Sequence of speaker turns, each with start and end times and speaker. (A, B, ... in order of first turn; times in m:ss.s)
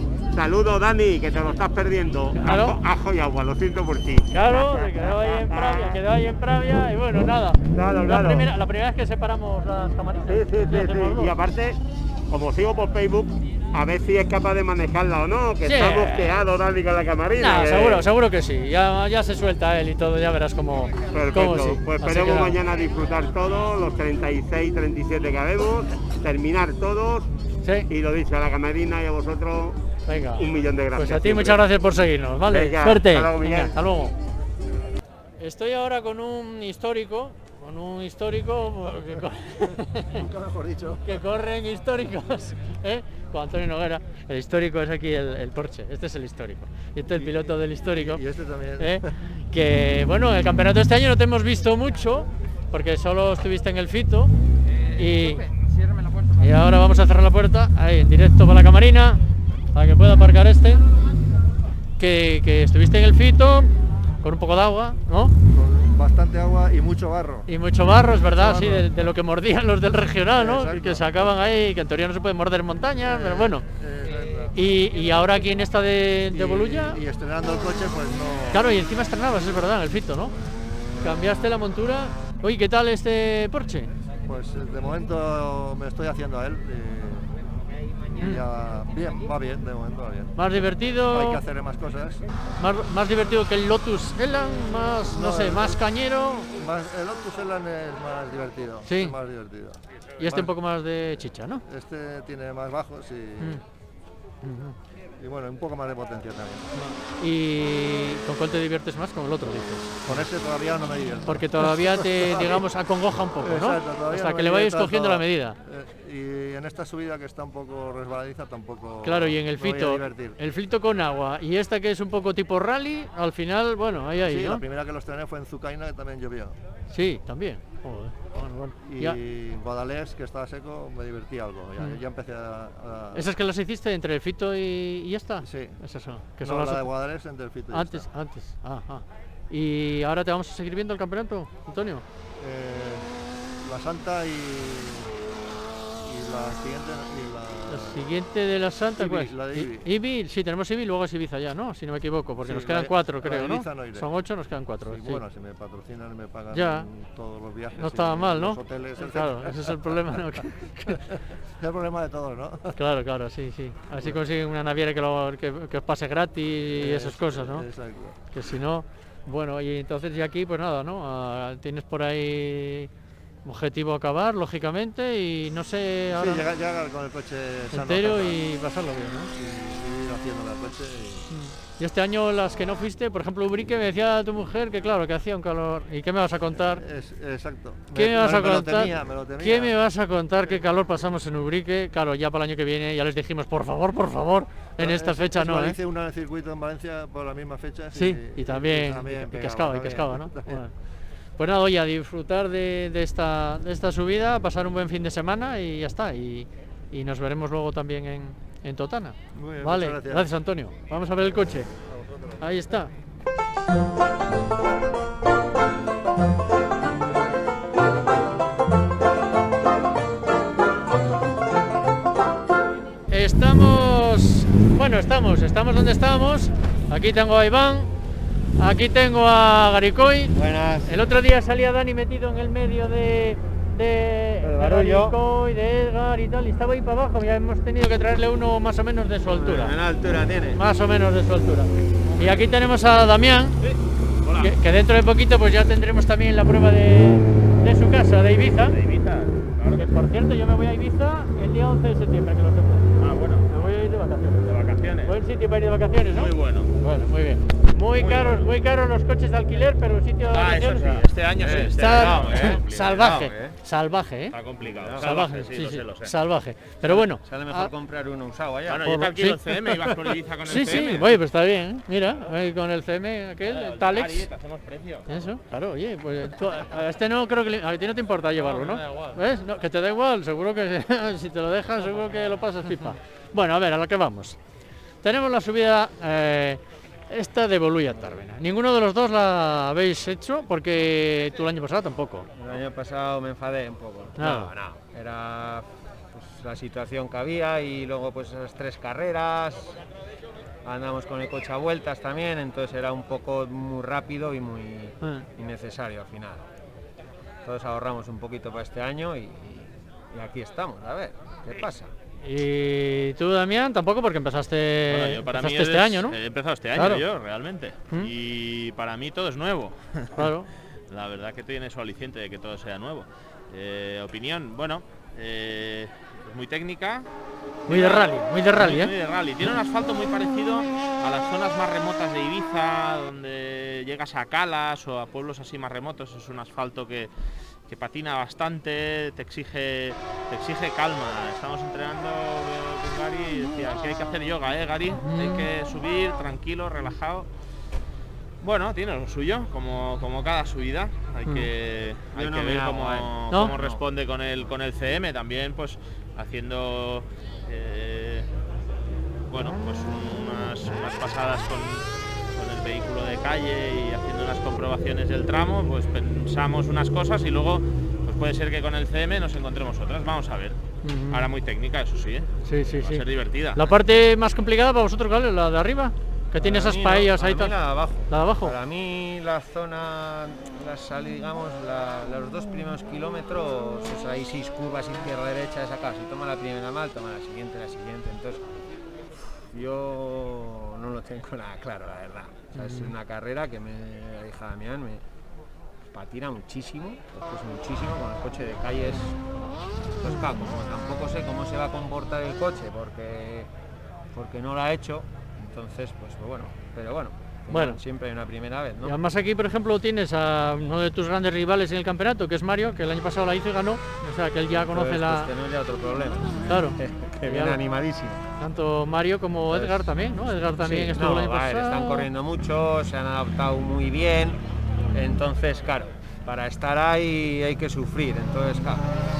0:00.3-0:06.0 A
0:02.4-0:02.8 B
0:04.3-0:11.3 B
0:07.8-0:08.5 A
0:10.3-0:11.8 A
0:12.3-0:18.0 A
0:15.6-0:16.3 B
0:17.4-0:22.6 B
0:21.1-0:27.3 A
0:27.9-0:29.8 A
0:30.1-0:30.4 B
0:30.3-0:31.6 A
0:30.9-0:34.1 B
0:32.5-0:33.7 A
0:35.4-0:40.2 B
0:40.1-0:41.2 C
0:41.0-0:48.2 B
0:47.1-0:49.1 C
0:48.8-0:54.3 B
0:55.0-0:55.4 B
0:56.4-0:59.2 B
0:59.7-1:00.8 B
1:02.0-1:03.7 B
1:04.2-1:05.3 B
1:05.5-1:07.5 C
1:07.5-1:13.6 B
1:08.3-1:08.8 C
1:10.4-1:11.0 C
1:13.0-1:14.6 C
1:14.5-1:17.0 B
1:16.3-1:18.6 C
1:18.5-1:20.3 B
1:21.0-1:23.9 B
1:24.3-1:27.3 C
1:28.2-1:30.3 C
1:28.2-1:28.4 B
1:30.4-1:31.4 B
1:31.1-1:32.2 C
1:32.6-1:36.5 B
1:35.1-1:35.6 C
1:36.6-1:40.5 C
1:38.8-1:39.1 B
1:40.2-1:41.6 B
1:41.7-1:43.6 C
1:44.4-1:44.7 B
1:45.2-1:46.7 C
1:46.7-1:50.0 B
1:50.0-1:52.6 C
1:51.2-1:55.6 B
1:53.4-2:00.4 C
1:59.0-2:04.6 B
2:04.2-2:06.6 C
2:06.9-2:09.2 B
2:08.8-2:13.2 C
2:13.1-2:16.9 B
2:15.4-2:15.8 C
2:16.4-2:18.1 C
2:17.7-2:22.0 B
2:22.4-2:23.0 C
2:23.6-2:25.3 C
2:26.0-2:28.0 C
2:27.7-2:35.2 B
2:29.0-2:29.8 C
2:32.4-2:34.1 C
2:34.8-2:40.0 C
2:36.5-2:36.9 B
2:37.8-2:41.0 B
2:41.6-2:42.7 C
2:42.8-2:47.7 B
2:46.8-2:48.2 C
2:48.3-2:52.9 B
2:53.4-2:56.4 B
2:56.2-2:58.4 C
2:57.7-2:59.3 B
2:59.3-3:01.3 C
3:01.3-3:06.8 B
3:06.7-3:09.7 C
3:07.9-3:15.8 B
3:14.8-3:20.6 C
3:17.9-3:20.7 B
3:21.4-3:31.7 B
3:29.4-3:30.3 C
3:31.9-3:32.4 C
3:32.4-3:32.9 B
3:43.1-3:47.9 B
3:48.6-3:59.7 B
3:50.3-3:50.9 D
3:54.4-3:55.1 D
3:59.2-4:00.6 D
4:00.5-4:03.6 B
4:02.1-4:02.5 E
4:03.6-4:04.5 E
4:04.4-4:08.8 B
4:08.7-4:09.9 E
4:09.7-4:12.9 B
4:13.0-4:13.5 E
4:13.5-4:14.4 B
4:14.4-4:15.1 E
4:15.0-4:24.3 B
4:16.1-4:16.7 E
4:18.0-4:18.4 E
4:20.3-4:23.2 E
4:21.4-4:23.5 D
4:24.3-4:26.1 E
4:24.8-4:25.1 D
4:25.0-4:27.7 B
4:26.8-4:29.0 D
4:28.7-4:31.1 E
4:28.8-4:29.8 B
4:30.5-4:34.2 B
4:35.1-4:44.4 B
4:45.0-4:52.3 B
4:52.4-4:59.8 D
4:54.2-4:54.5 B
5:00.6-5:06.4 D
5:07.4-5:11.9 D
5:12.2-5:16.2 B
5:14.9-5:20.2 E
5:16.7-5:17.0 B
5:20.2-5:20.5 B
5:20.9-5:27.0 E
5:27.7-5:37.1 E
5:27.7-5:28.9 B
5:37.6-5:47.3 E
5:44.9-5:45.5 B
5:48.4-5:58.3 E
5:52.1-5:53.8 D
5:53.3-5:53.6 B
5:59.3-6:10.6 E
6:10.8-6:11.3 B
6:11.1-6:13.6 E
6:12.4-6:13.0 B
6:13.6-6:17.6 B
6:16.4-6:28.4 D
6:18.1-6:18.5 B
6:29.2-6:35.0 D
6:32.5-6:32.9 B
6:35.9-6:39.2 D
6:40.0-6:43.5 D
6:44.1-6:49.0 D
6:47.5-6:47.8 B
6:48.8-6:55.3 B
6:54.5-6:58.2 D
6:56.4-6:57.6 B
6:58.4-7:02.1 B
6:59.5-6:59.9 D
7:00.6-7:04.4 D
7:04.9-7:08.8 D